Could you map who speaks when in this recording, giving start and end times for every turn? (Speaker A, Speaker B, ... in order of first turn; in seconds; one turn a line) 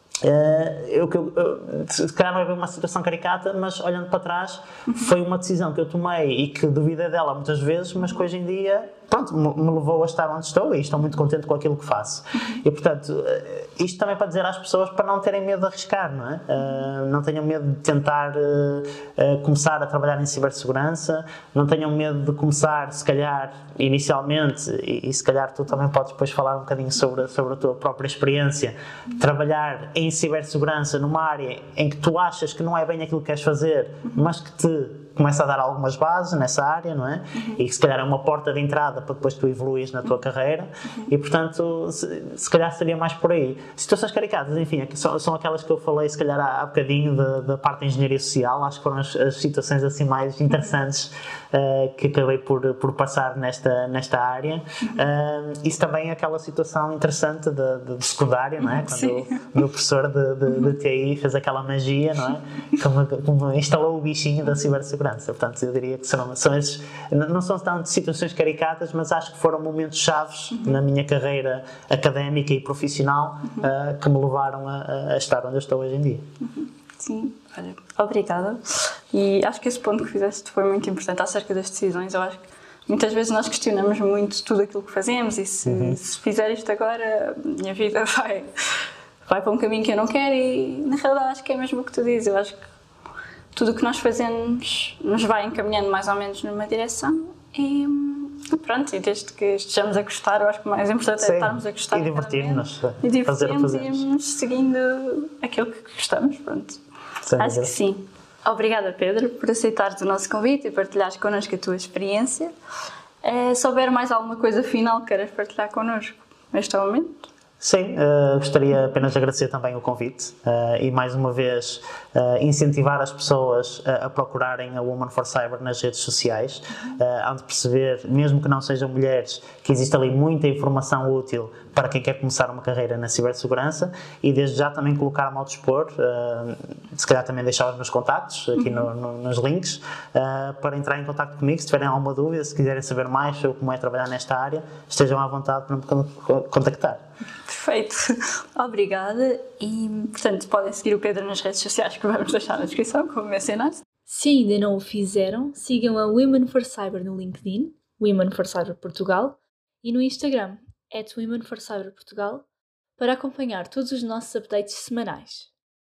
Speaker A: 0.2-76.2
Speaker B: 58.6-59.4
Speaker B: 76.4-88.5
Speaker A: 85.6-86.0
Speaker B: 89.2-92.6
Speaker B: 93.5-106.8
Speaker A: 101.2-104.0
Speaker A: 107.2-107.7
Speaker B: 107.3-112.5
Speaker B: 113.2-117.3
Speaker A: 117.6-147.0
Speaker B: 138.6-138.9
Speaker B: 147.4-153.8
Speaker C: 154.1-162.4
Speaker C: 163.0-165.5